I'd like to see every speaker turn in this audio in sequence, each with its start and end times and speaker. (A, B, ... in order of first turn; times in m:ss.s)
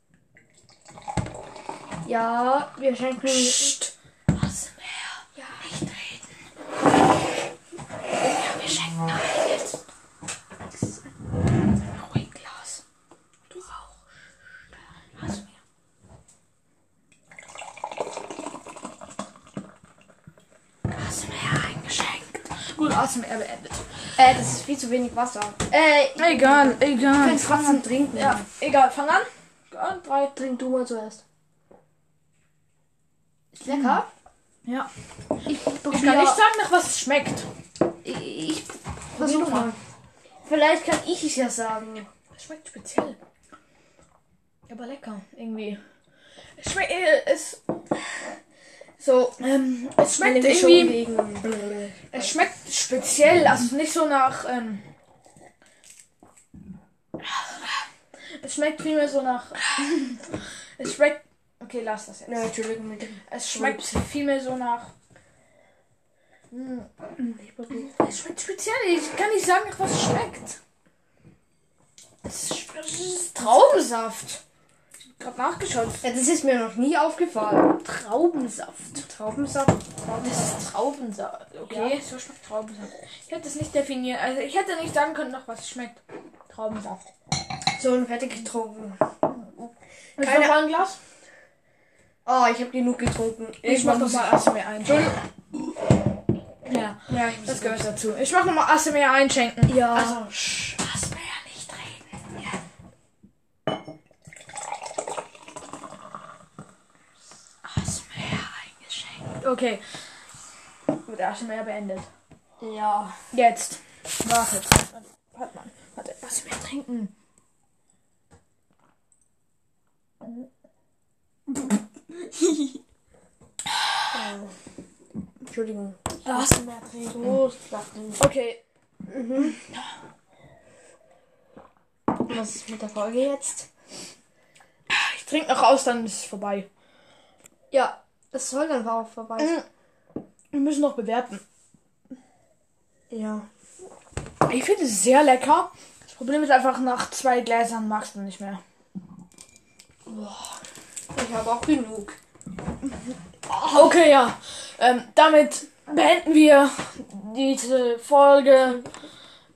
0:02.0-0:03.8 A
0:03.2-0:06.2 B
0:08.2-0:09.7 B
0:11.7-0:12.8 B
0:15.2-0:15.5 B
0:20.9-0:23.8 B
0:24.2-0:28.4 A
0:26.2-0:30.3 B
0:30.3-0:31.2 A
0:33.5-0:34.1 A
0:33.6-0:34.0 B
0:35.5-0:36.4 A
0:35.8-0:37.5 B
0:38.0-0:39.8 A
0:39.1-0:39.8 B
0:40.4-0:42.1 A
0:42.3-0:43.2 B
0:44.7-0:45.8 B
0:46.6-0:47.6 B
0:49.0-0:49.4 A
0:49.4-0:51.0 B
0:50.2-0:52.3 A
0:52.1-0:54.8 B
0:57.4-0:57.7 B
0:58.4-1:02.5 B
1:02.3-1:03.9 A
1:03.3-1:04.9 B
1:06.5-1:06.9 B
1:07.2-1:07.9 A
1:07.7-1:10.6 B
1:12.2-1:14.4 B
1:13.4-1:13.9 A
1:15.0-1:16.0 B
1:16.0-1:17.8 A
1:17.8-1:19.1 B
1:19.0-1:20.7 A
1:20.0-1:27.0 B
1:21.6-1:22.0 A
1:27.8-1:29.0 A
1:30.2-1:31.0 B
1:30.2-1:30.6 A
1:32.2-1:34.5 A
1:33.6-1:35.2 B
1:36.6-1:42.3 B
1:37.1-1:37.9 A
1:39.6-1:40.8 A
1:47.6-1:49.8 B
1:51.0-1:52.1 B
1:52.6-1:53.2 A
1:53.3-1:57.1 B
2:04.1-2:04.5 A
2:05.4-2:08.2 A
2:06.2-2:07.4 B
2:08.2-2:08.6 B
2:09.1-2:09.6 A
2:12.2-2:13.7 A
2:14.9-2:16.7 B
2:17.7-2:19.6 A
2:19.4-2:19.6 B
2:20.5-2:21.4 B
2:23.1-2:23.5 A
2:24.4-2:28.6 B
2:30.1-2:30.5 A
2:31.1-2:32.2 A
2:33.5-2:38.8 B